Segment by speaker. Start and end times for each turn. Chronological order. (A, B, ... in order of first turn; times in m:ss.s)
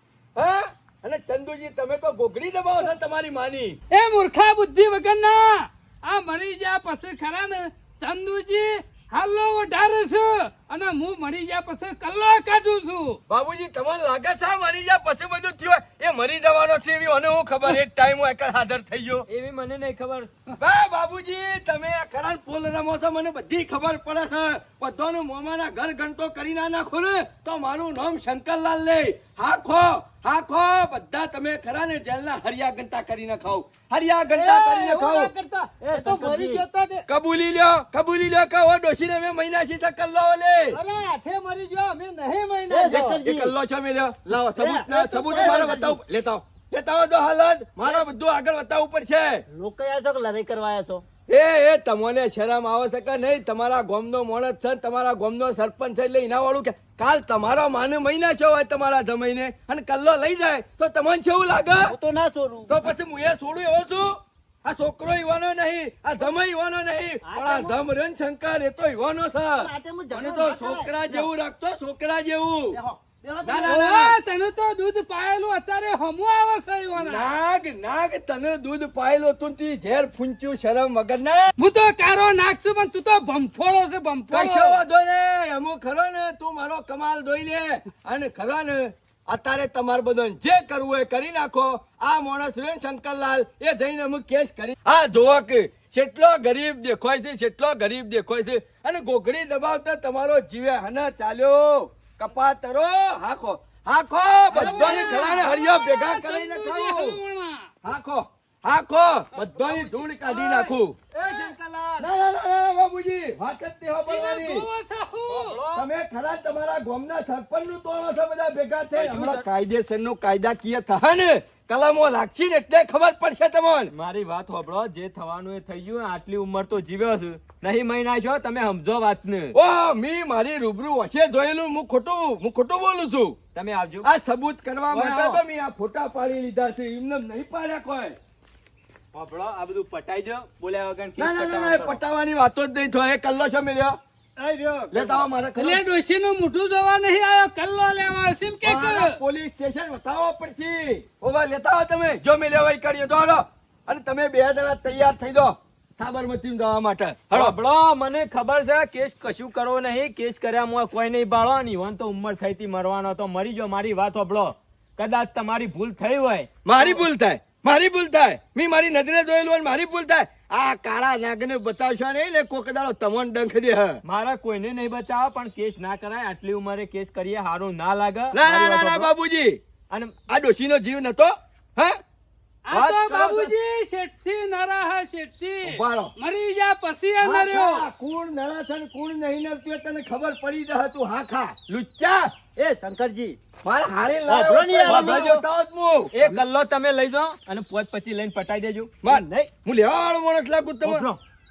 0:00.4-0:03.8 A
0:03.9-0:13.2 B
0:13.3-0:19.2 A
0:19.3-0:20.3 C
0:20.6-0:35.3 A
0:34.3-0:37.0 D
0:35.8-0:36.6 E
0:37.1-0:40.8 A
0:40.7-0:43.2 D
0:42.7-0:43.5 E
0:42.9-0:49.4 A
0:44.5-0:46.0 E
0:45.2-0:45.8 D
0:49.5-0:51.0 E
0:51.3-1:01.9 A
1:01.8-1:02.8 E
1:02.7-1:12.8 A
1:07.2-1:07.8 E
1:09.6-1:11.3 E
1:12.7-1:13.8 E
1:13.4-1:14.2 A
1:13.6-1:17.3 B
1:17.0-1:21.5 A
1:21.6-1:24.8 B
1:24.3-1:47.2 A
1:44.5-1:47.7 B
1:44.5-1:45.3 C
1:47.8-1:51.0 A
1:49.3-1:52.1 C
1:51.2-1:51.5 B
1:52.0-1:54.6 A
1:54.1-1:55.6 B
1:55.3-1:55.9 C
1:55.7-2:03.9 A
1:58.9-1:59.4 C
2:03.9-2:09.6 C
2:09.5-2:13.4 A
2:13.5-2:14.1 C
2:14.0-2:18.2 A
2:14.9-2:15.4 C
2:19.1-2:22.0 C
2:21.2-2:24.0 A
2:24.4-2:25.2 D
2:24.9-2:25.8 A
2:25.6-2:29.2 B
2:28.6-2:37.6 A
2:37.3-2:47.0 C
2:46.6-2:54.0 A
2:54.0-2:59.0 C
2:58.3-2:59.6 A
2:58.5-2:58.9 E
3:00.3-3:02.0 A
3:02.7-3:07.8 B
3:02.7-3:03.5 A
3:05.6-3:06.1 A
3:07.2-3:12.3 A
3:12.6-3:13.4 E
3:13.6-3:16.1 A
3:14.3-3:15.3 E
3:14.8-3:15.4 C
3:16.1-3:18.9 C
3:19.0-3:21.1 A
3:19.1-3:19.5 E
3:20.8-3:21.2 E